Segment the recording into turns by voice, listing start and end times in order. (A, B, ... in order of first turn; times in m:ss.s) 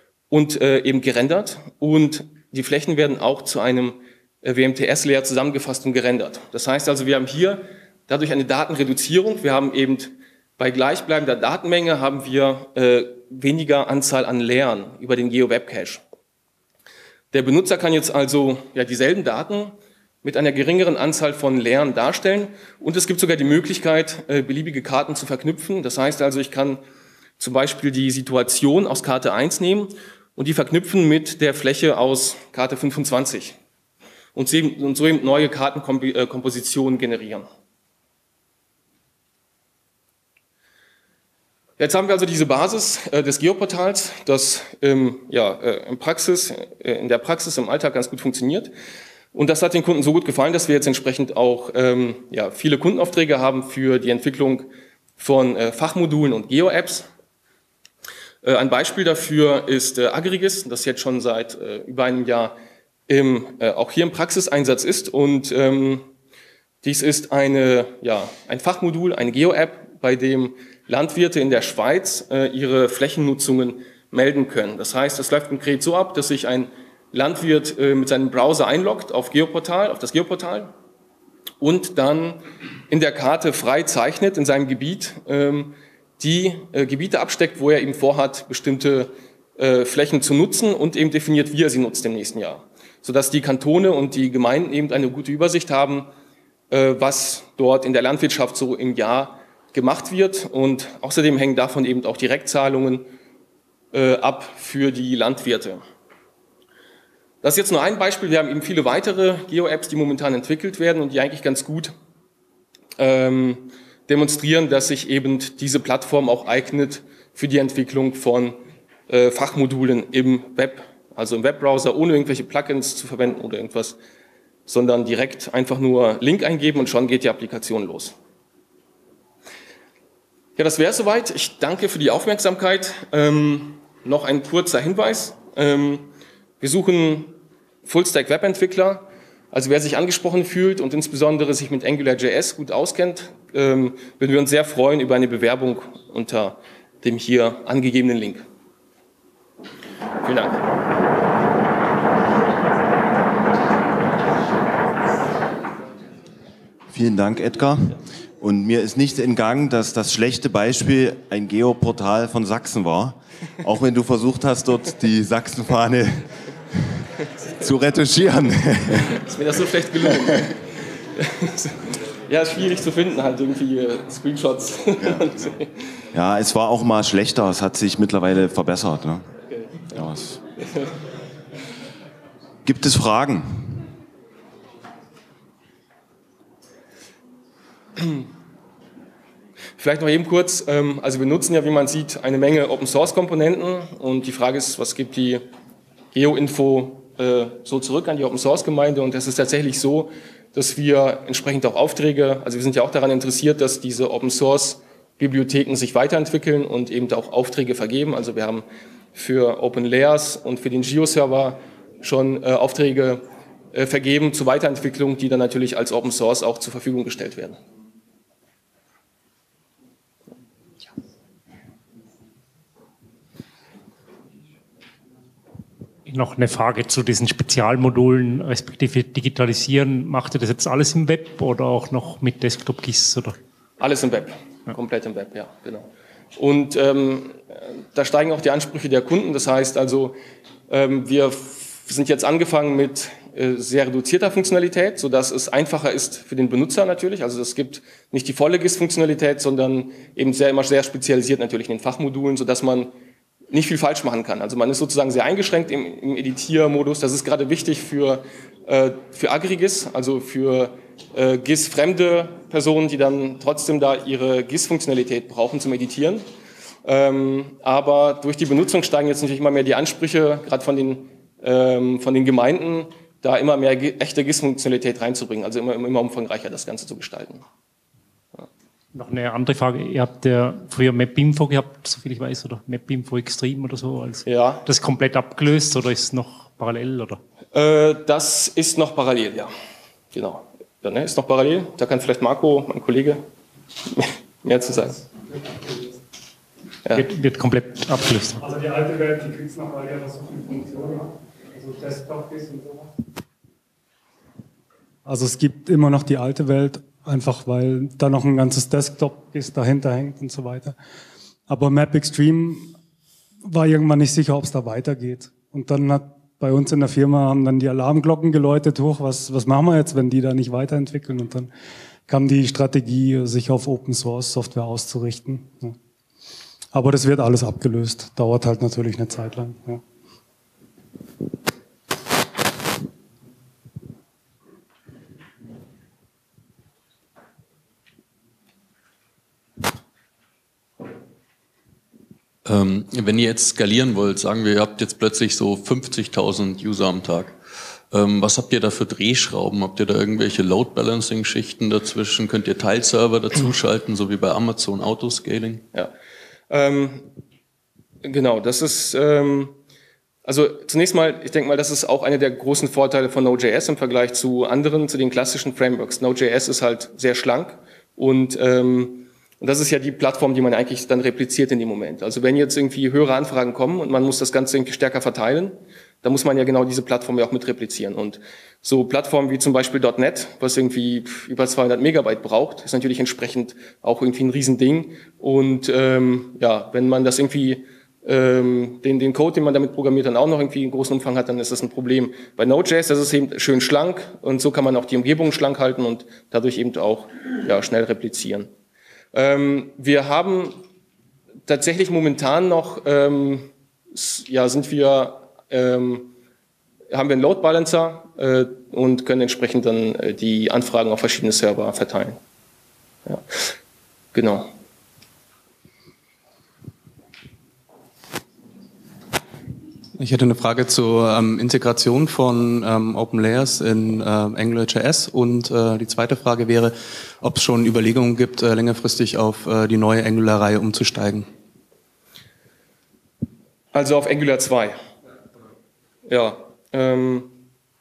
0:00.3-0:16.0 A
0:17.3-0:26.8 A
0:27.4-0:33.6 A
0:34.4-0:37.5 A
0:41.8-0:48.7 A
0:49.3-0:57.1 A
0:58.4-1:02.6 A
1:03.1-1:06.1 A
1:06.8-1:20.7 A
1:21.6-1:36.1 A
1:36.7-1:43.1 A
1:43.9-1:45.8 A
1:47.4-1:51.9 A
1:53.0-2:04.0 A
2:04.7-2:08.1 A
2:10.6-2:28.4 A
2:30.2-2:30.6 A
2:36.9-2:47.0 B
2:47.6-2:49.2 B
2:49.1-2:55.7 A
2:55.0-2:55.4 B
2:56.1-2:59.2 B
2:59.9-3:00.4 B
3:02.6-3:03.8 B
3:09.8-3:15.4 A
3:16.1-3:28.6 A
3:29.1-3:37.6 A
3:46.0-3:53.4 C
3:53.8-4:00.2 A
4:00.7-4:12.9 A
4:13.5-4:26.2 A
4:26.8-4:37.4 A
4:38.9-4:47.2 C
4:44.3-4:44.6 A
4:47.5-4:49.5 A
4:50.1-4:53.2 A
4:53.9-4:55.0 A
4:55.3-4:56.0 D
4:56.9-4:58.4 C
4:58.4-5:02.9 D
5:05.0-5:10.8 D
5:11.5-5:12.7 D
5:13.4-5:21.5 D
5:22.1-5:25.8 D
5:26.7-5:29.8 D
5:42.4-5:47.4 E
5:47.9-5:55.6 E
5:56.5-5:57.1 A
5:58.0-5:59.6 A
6:00.2-6:38.5 A
6:39.1-6:40.6 A
6:41.4-6:46.1 A
6:46.9-6:52.2 A
6:54.1-6:54.5 A
7:00.0-7:11.3 F
7:13.7-7:14.7 A
7:16.1-7:17.4 A